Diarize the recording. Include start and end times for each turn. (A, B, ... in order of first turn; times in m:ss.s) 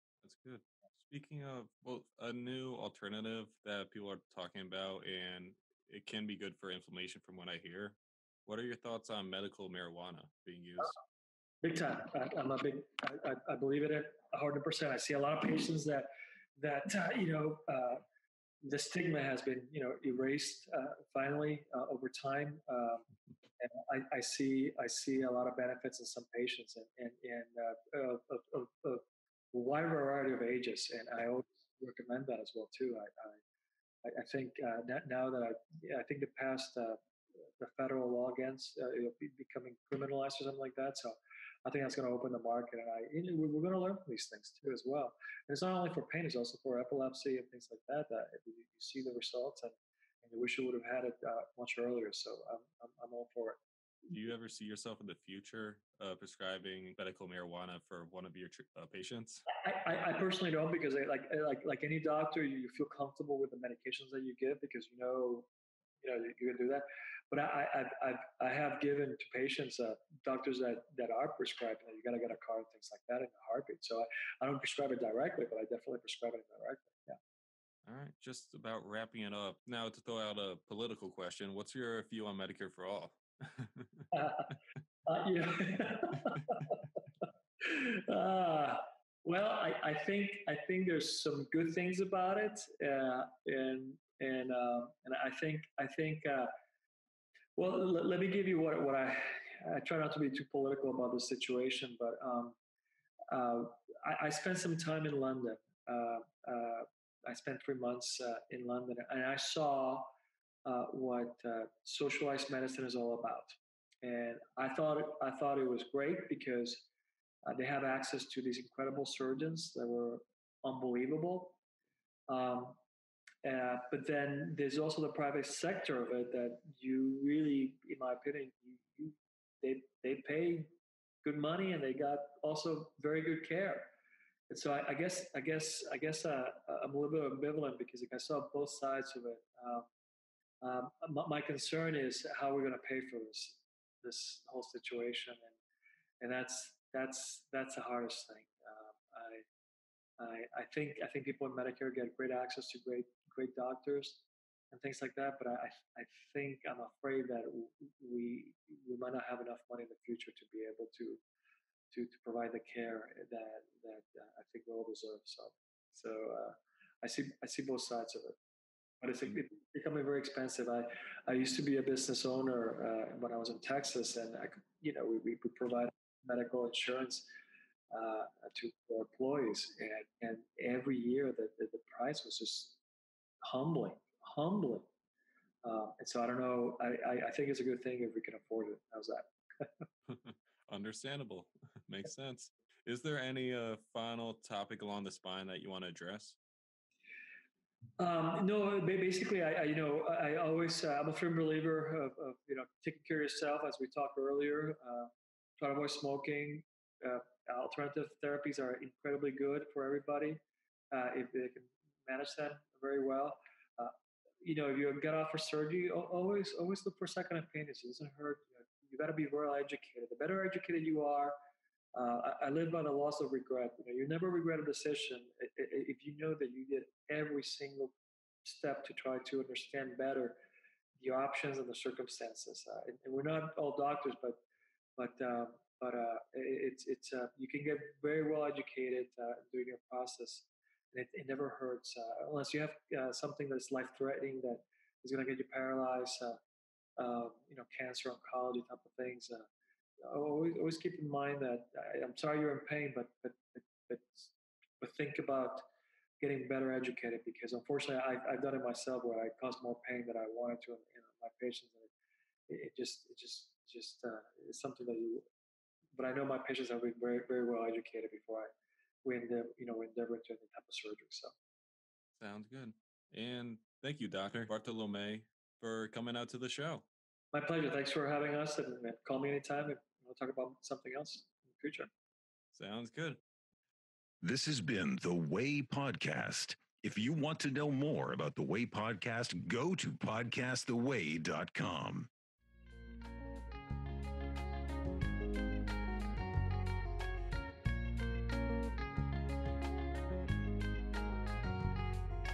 0:00.2-0:11.0 A
0:11.6-0:18.0 B
0:18.6-0:23.0 B
0:23.6-0:33.4 B
0:34.0-0:37.0 B
0:37.6-0:53.6 B
0:54.1-0:59.4 A
0:59.5-1:05.5 B
1:06.0-1:17.2 B
1:17.8-1:24.1 A
1:24.1-1:24.5 B
1:25.0-1:26.8 B
1:27.6-1:36.5 B
1:37.6-1:42.6 B
1:43.3-1:50.1 B
1:50.6-1:56.9 B
1:57.4-2:01.6 B
2:02.3-2:02.8 B
2:03.4-2:10.7 B
2:11.2-2:13.9 B
2:14.5-2:19.9 B
2:20.6-2:25.5 B
2:26.2-2:29.4 B
2:30.2-2:41.2 B
2:41.9-2:48.4 B
2:49.0-2:57.3 B
2:57.9-3:02.8 B
3:03.4-3:04.9 B
3:05.6-3:09.8 B
3:10.1-3:16.4 A
3:18.0-3:30.4 B
3:30.9-3:41.4 B
3:42.0-3:50.4 B
3:51.0-3:54.4 B
3:55.0-4:06.4 B
4:07.0-4:09.5 B
4:10.0-4:15.7 B
4:16.2-4:21.9 B
4:22.5-4:25.2 B
4:26.0-4:28.5 B
4:29.0-4:31.3 B
4:32.2-4:36.9 A
4:37.3-4:41.9 B
4:42.5-4:43.2 A
4:44.2-4:52.1 C